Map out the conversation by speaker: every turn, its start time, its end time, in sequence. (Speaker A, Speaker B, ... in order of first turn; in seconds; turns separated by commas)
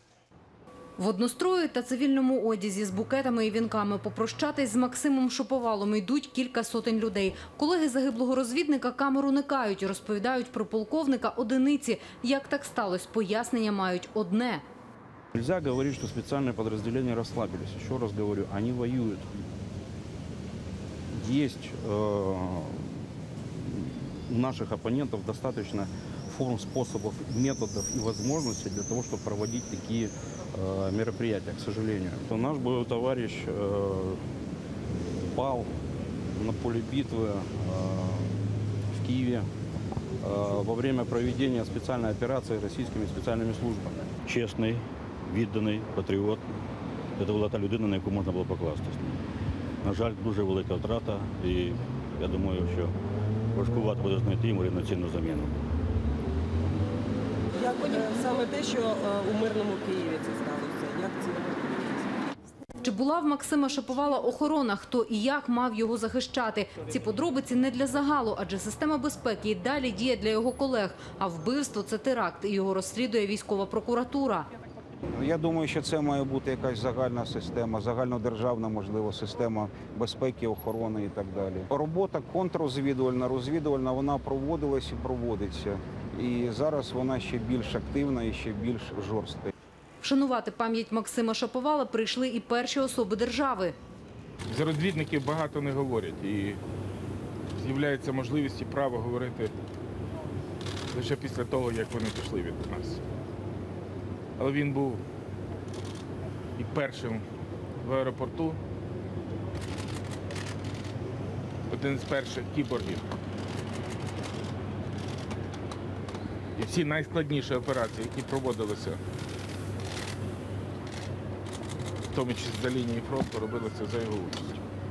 Speaker A: 1.0-14.6, Speaker B: 15.3-19.3, Speaker B: 21.1-22.9, Speaker B: 23.6-34.2, Speaker B: 35.2-35.7, Speaker B: 36.4-38.4, Speaker B: 38.9-39.5, Speaker B: 40.2-44.1, Speaker C: 44.2-46.4, Speaker C: 47.2-49.2, Speaker C: 49.8-52.9, Speaker C: 53.5-55.6, Speaker D: 57.6-61.9, Speaker A: 62.8-74.5, Speaker E: 75.1-89.5, Speaker A: 90.0-93.8, Speaker F: 94.5-96.6, Speaker F: 97.5-99.5, Speaker F: 100.9-103.0, Speaker F: 104.4-105.0, Speaker F: 106.6-107.2, Speaker F: 107.8-108.6, Speaker F: 111.7-113.1, Speaker F: 116.5-119.0, Speaker F: 122.1-124.5